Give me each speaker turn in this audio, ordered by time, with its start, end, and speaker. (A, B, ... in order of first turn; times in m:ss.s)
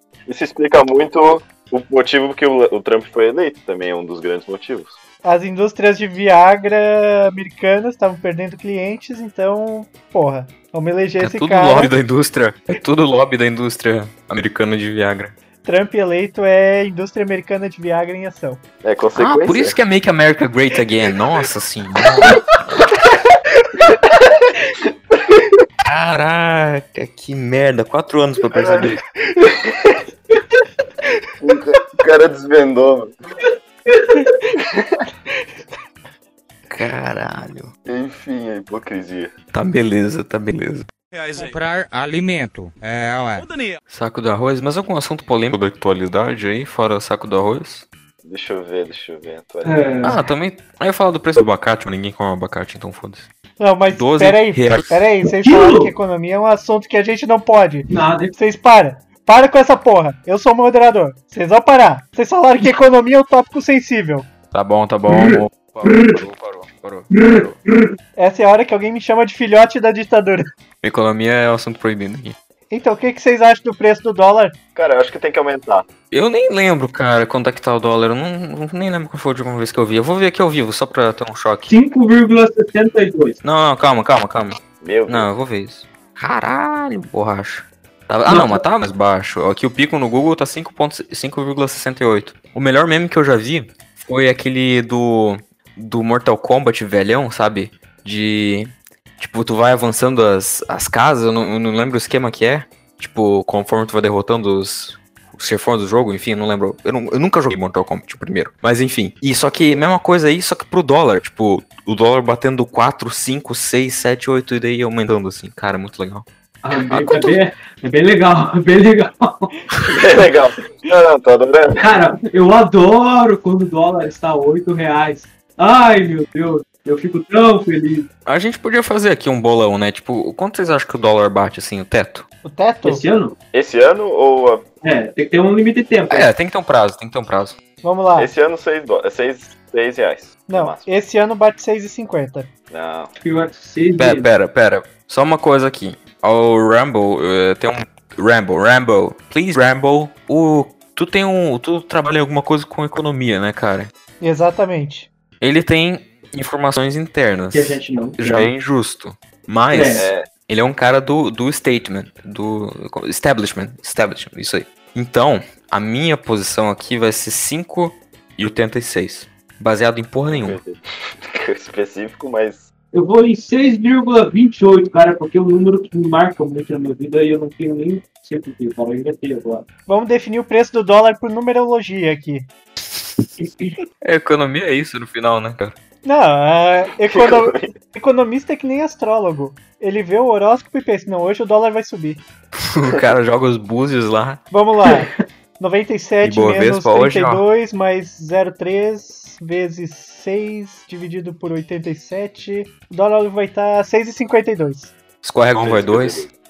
0:00.3-0:05.0 A
0:05.2-0:11.9 B
0:11.2-0:15.4 C
0:15.6-0:18.6 B
0:18.8-0:19.8 A
0:19.2-0:22.5 C
0:25.9-0:29.0 C
0:28.5-0:29.8 A
0:31.4-0:33.1 A
0:33.9-0:34.3 D
0:34.6-0:35.0 A
0:36.7-0:37.7 C
0:37.8-0:39.3 A
0:39.5-0:40.9 C
0:41.2-0:43.6 E
0:43.9-0:47.9 C
0:48.2-0:49.8 A
0:49.6-0:50.2 D
0:50.0-0:53.3 C
0:53.6-1:04.3 B
0:53.9-0:55.0 C
0:55.4-0:55.9 D
0:57.9-0:58.4 D
1:04.5-1:07.6 C
1:05.1-1:06.2 D
1:07.1-1:07.9 D
1:08.2-1:10.5 B
1:10.8-1:12.4 C
1:12.7-1:14.6 B
1:14.8-1:15.9 A
1:16.1-1:21.7 C
1:21.7-1:23.4 D
1:23.4-1:56.3 C
1:24.8-1:25.3 A
1:28.3-1:28.6 D
1:56.6-1:59.6 D
1:56.9-1:57.3 C
1:59.9-2:01.9 A
2:01.8-2:08.1 D
2:08.3-2:12.3 C
2:12.4-2:13.0 B
2:12.8-2:13.4 D
2:13.5-2:14.6 A
2:14.8-2:16.3 D
2:16.1-2:17.6 C
2:17.8-2:18.3 B
2:18.2-2:20.9 A
2:20.5-2:22.5 B
2:22.7-2:23.1 A
2:23.2-2:24.3 D
2:24.0-2:33.9 C
2:34.2-2:35.1 B
2:35.4-2:50.6 C
2:37.5-2:38.5 D
2:39.7-2:40.1 D
2:39.9-2:40.3 A
2:50.3-2:52.7 A
2:52.9-2:59.7 D
2:59.9-3:02.5 B
3:03.4-3:03.8 D
3:04.0-3:05.8 C
3:06.0-3:12.2 B
3:07.1-3:07.7 A
3:12.6-3:14.4 C
3:14.5-3:24.9 B
3:16.2-3:17.4 C
3:25.2-3:26.3 C
3:25.6-3:26.3 A